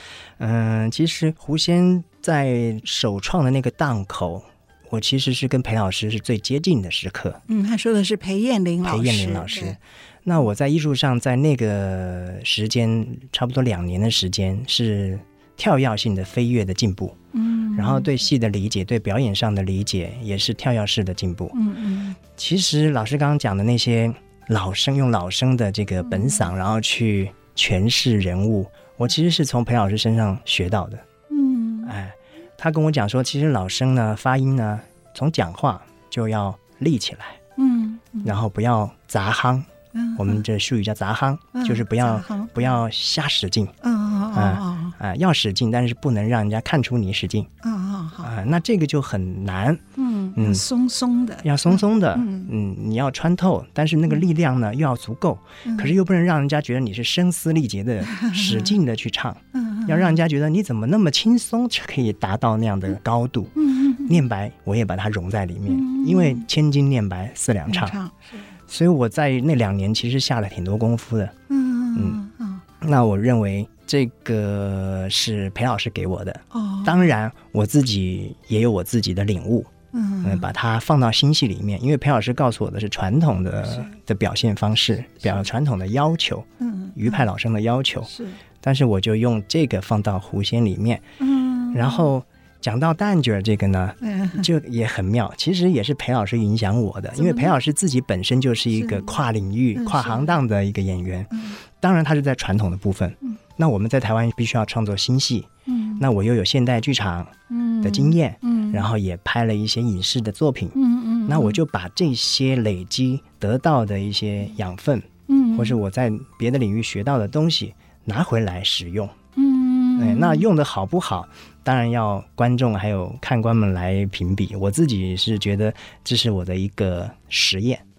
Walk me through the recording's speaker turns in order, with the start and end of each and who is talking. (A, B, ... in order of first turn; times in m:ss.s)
0:00.4-0:07.4 A
0:07.5-0:09.8 B
0:08.8-0:17.2 A
0:17.3-0:18.1 B
0:17.7-0:21.6 A
0:21.5-0:22.2 B
0:22.3-0:31.0 A
0:26.1-0:26.5 B
0:31.3-0:31.9 B
0:31.8-0:37.4 A
0:37.6-0:38.3 B
0:38.2-0:43.7 A
0:39.9-0:40.4 B
0:41.5-0:42.8 B
0:43.8-0:45.0 B
0:44.3-0:47.5 A
0:47.6-0:48.3 B
0:48.2-0:49.8 A
0:50.0-0:52.5 B
0:50.4-0:50.6 A
0:51.4-1:08.0 A
0:55.6-0:55.9 B
0:58.0-0:58.7 B
0:59.5-1:00.2 B
1:03.6-1:04.2 B
1:05.7-1:06.5 B
1:07.7-1:08.4 B
1:08.7-1:11.3 A
1:11.5-1:12.6 B
1:12.8-1:19.7 A
1:16.5-1:17.1 B
1:19.9-1:20.5 B
1:20.2-1:28.1 A
1:26.6-1:27.2 B
1:28.1-1:28.4 B
1:28.6-1:31.0 A
1:31.2-1:32.1 B
1:31.7-1:59.1 A
1:34.0-1:34.5 B
1:37.2-1:37.6 B
1:38.8-1:39.2 B
1:39.8-1:40.4 B
1:41.3-1:41.6 B
1:45.7-1:46.0 B
1:47.5-1:48.9 B
1:50.8-1:51.6 B
1:55.3-1:55.8 B
1:59.4-2:00.5 B
2:00.0-2:07.8 A